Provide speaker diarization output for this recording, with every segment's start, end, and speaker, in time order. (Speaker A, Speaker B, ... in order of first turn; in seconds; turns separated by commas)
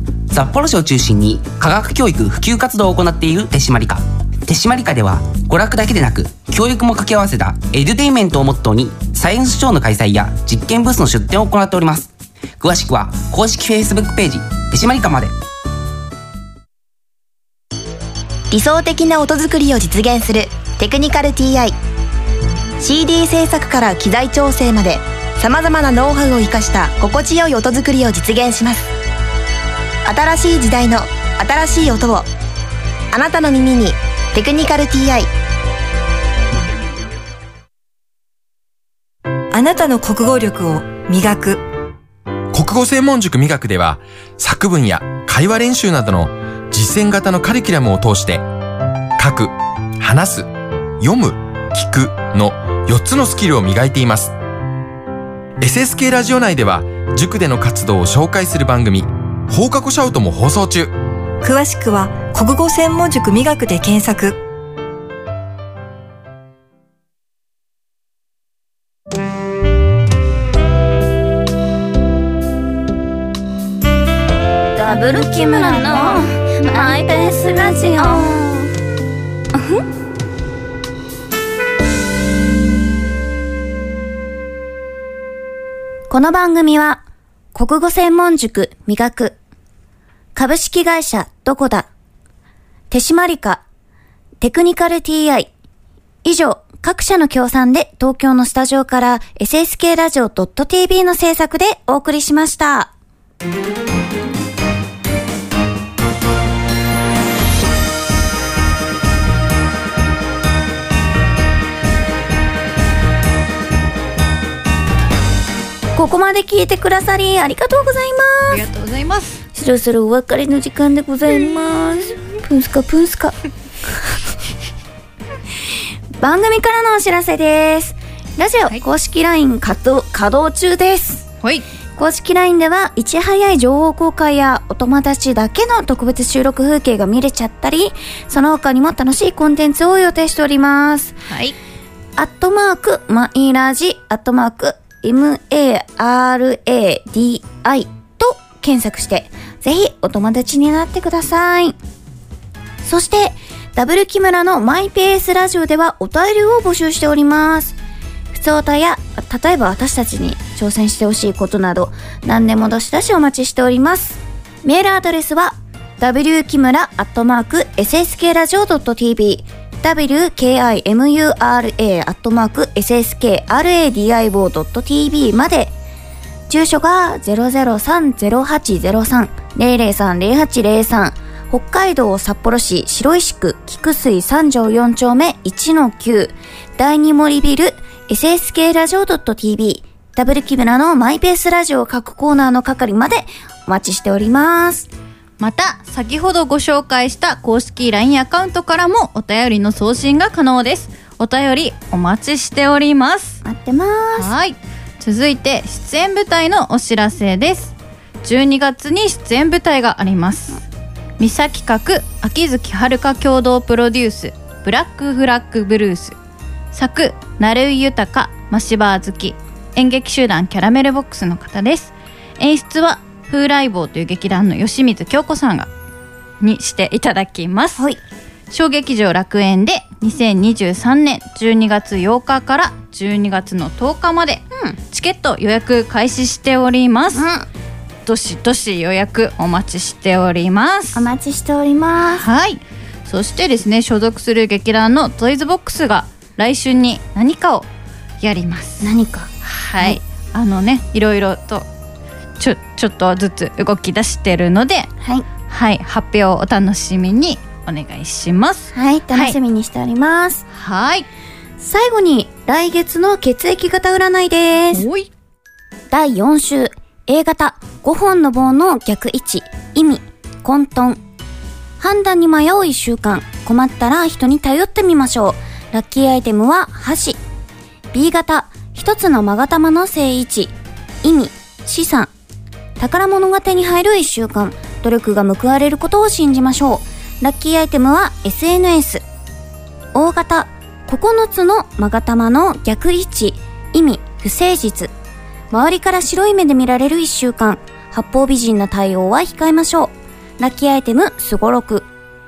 Speaker A: 0.3-15.3, Speaker B: 18.5-21.8, Speaker B: 22.8-28.9, Speaker B: 30.1-32.3, Speaker B: 33.1-35.3, Speaker C: 39.5-41.6, Speaker D: 42.5-48.4, Speaker D: 49.2-50.5, Speaker D: 51.0-54.3, Speaker D: 55.6-60.9, Speaker C: 61.4-64.4, Speaker E: 74.8-78.5, Speaker F: 75.6-76.0, Speaker E: 86.1-87.0, Speaker E: 87.5-89.4, Speaker E: 90.3-91.9, Speaker E: 92.9-93.6, Speaker E: 94.4-95.5, Speaker E: 96.2-102.9, Speaker E: 115.9-118.7, Speaker F: 118.5-119.4, Speaker E: 119.5-124.2, Speaker E: 126.2-131.3, Speaker F: 131.4-131.7, Speaker E: 132.0-141.2, Speaker F: 141.3-141.6, Speaker E: 142.2-151.8, Speaker E: 152.8-157.8, Speaker E: 158.3-175.7, Speaker E: 176.5-194.9, Speaker F: 195.4-203.4, Speaker E: 203.4-204.3, Speaker F: 204.1-210.6, Speaker F: 211.2-216.2, Speaker F: 216.7-225.7, Speaker F: 226.4-227.9, Speaker F: 228.5-237.2, Speaker E: 234.5-234.8, Speaker E: 237.1-237.5, Speaker F: 238.1-241.1, Speaker E: 240.9-242.3, Speaker F: 242.1-247.7, Speaker F: 248.2-251.7, Speaker E: 248.8-250.0, Speaker F: 252.4-254.9, Speaker E: 255.0-255.3, Speaker F: 255.5-259.4, Speaker E: 258.7-260.4, Speaker F: 260.5-261.1, Speaker E: 261.6-264.9, Speaker F: 264.7-265.1, Speaker E: 265.9-271.0, Speaker E: 271.8-277.2, Speaker E: 277.9-282.1, Speaker E: 282.8-289.0, Speaker E: 289.9-294.9, Speaker E: 295.5-301.9